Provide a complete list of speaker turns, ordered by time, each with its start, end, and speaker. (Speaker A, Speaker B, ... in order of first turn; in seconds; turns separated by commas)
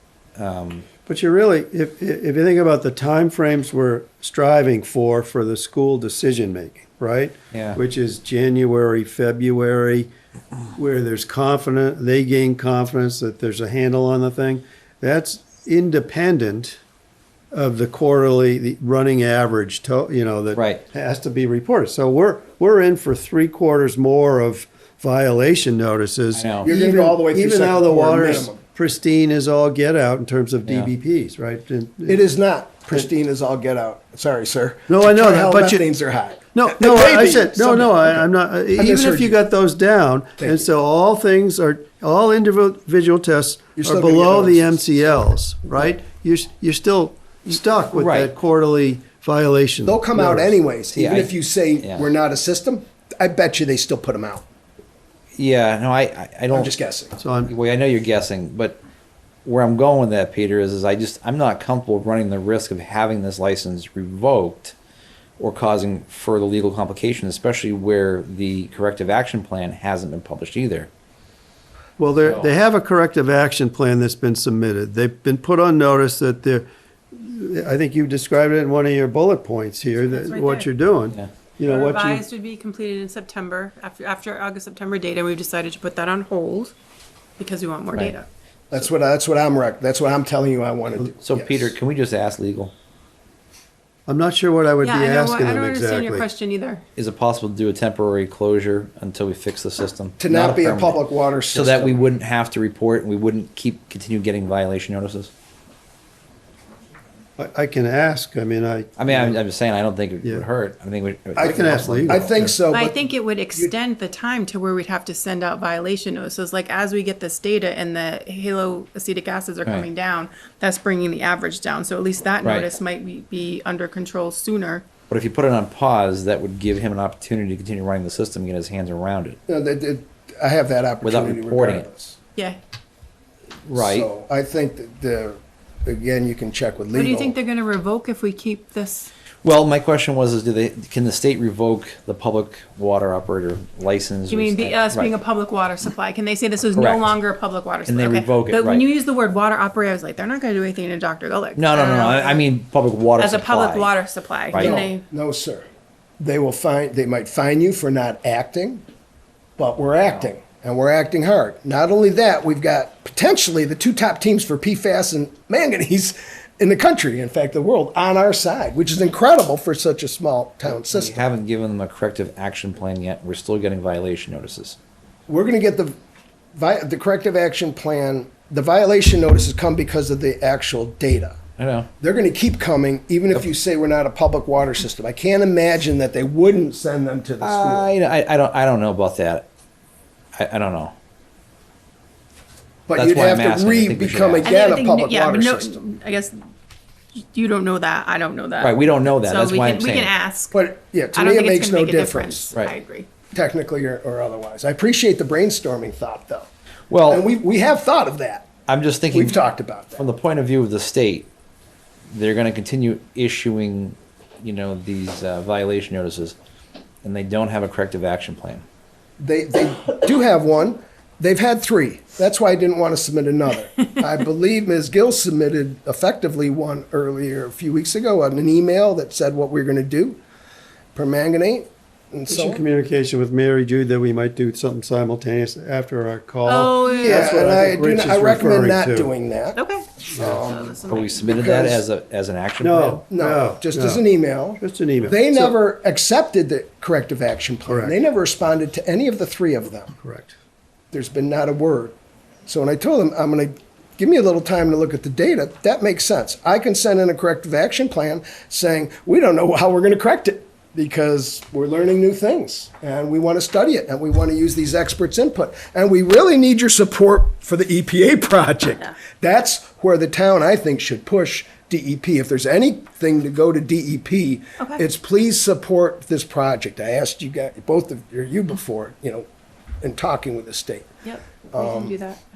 Speaker A: 0.3-0.9, Speaker B: 1.1-10.1, Speaker A: 7.5-7.8, Speaker B: 10.7-16.8, Speaker B: 17.5-32.2, Speaker A: 20.5-20.8, Speaker A: 26.3-26.7, Speaker C: 26.6-28.6, Speaker A: 30.6-30.9, Speaker C: 32.1-38.2, Speaker B: 34.9-35.8, Speaker B: 36.5-50.5, Speaker C: 38.7-39.4, Speaker C: 40.4-40.6, Speaker C: 43.8-45.2, Speaker A: 47.9-48.3, Speaker C: 49.8-54.4, Speaker A: 50.9-52.1, Speaker A: 55.3-56.7, Speaker C: 56.5-57.2, Speaker B: 57.2-57.5, Speaker A: 57.5-58.8, Speaker A: 59.4-64.8, Speaker A: 65.4-70.9, Speaker B: 72.0-82.2, Speaker A: 72.2-72.5, Speaker D: 80.1-80.7, Speaker D: 81.6-86.7, Speaker D: 87.4-88.3, Speaker C: 88.7-91.7, Speaker A: 91.2-92.7, Speaker B: 94.1-96.2, Speaker D: 94.8-96.8, Speaker A: 97.0-101.0, Speaker C: 100.2-102.1, Speaker A: 101.5-105.3, Speaker B: 107.4-109.4, Speaker A: 109.0-112.4, Speaker C: 111.4-113.0, Speaker B: 111.4-112.5, Speaker D: 112.7-124.8, Speaker A: 125.1-129.4, Speaker C: 129.5-132.2, Speaker A: 131.0-131.9, Speaker A: 133.7-134.1, Speaker C: 133.7-137.3, Speaker D: 136.9-139.1, Speaker A: 139.4-145.1, Speaker D: 144.3-152.4, Speaker A: 146.7-147.1, Speaker A: 147.8-148.8, Speaker A: 151.6-153.9, Speaker D: 153.2-155.0, Speaker A: 154.5-154.9, Speaker C: 154.6-155.6, Speaker C: 156.2-158.8, Speaker C: 159.6-171.2, Speaker A: 160.0-160.3, Speaker A: 170.8-174.8, Speaker C: 175.3-175.9, Speaker C: 176.5-181.3, Speaker A: 181.6-181.9, Speaker C: 182.0-187.9, Speaker A: 187.4-189.5, Speaker A: 190.3-190.9, Speaker C: 192.9-195.8, Speaker A: 192.9-194.5, Speaker D: 194.4-196.4, Speaker D: 197.3-200.6, Speaker A: 198.6-200.1, Speaker C: 200.5-202.5, Speaker D: 201.1-203.1, Speaker C: 203.3-206.5, Speaker A: 206.9-207.2, Speaker C: 207.1-208.5, Speaker A: 208.7-209.4, Speaker C: 209.1-210.0, Speaker A: 210.0-211.3, Speaker A: 212.1-216.4, Speaker A: 217.0-218.6, Speaker C: 219.2-230.2, Speaker C: 230.9-232.6, Speaker B: 232.3-239.1, Speaker D: 236.4-237.3, Speaker C: 236.9-239.6, Speaker D: 239.5-241.4, Speaker B: 240.1-240.4, Speaker C: 240.2-241.8, Speaker A: 240.9-243.0, Speaker B: 242.6-244.0, Speaker C: 243.1-249.9, Speaker B: 244.6-245.6, Speaker B: 247.7-248.0, Speaker B: 250.0-250.3, Speaker C: 250.9-279.2, Speaker C: 279.8-280.9, Speaker D: 281.0-282.2, Speaker C: 281.5-282.0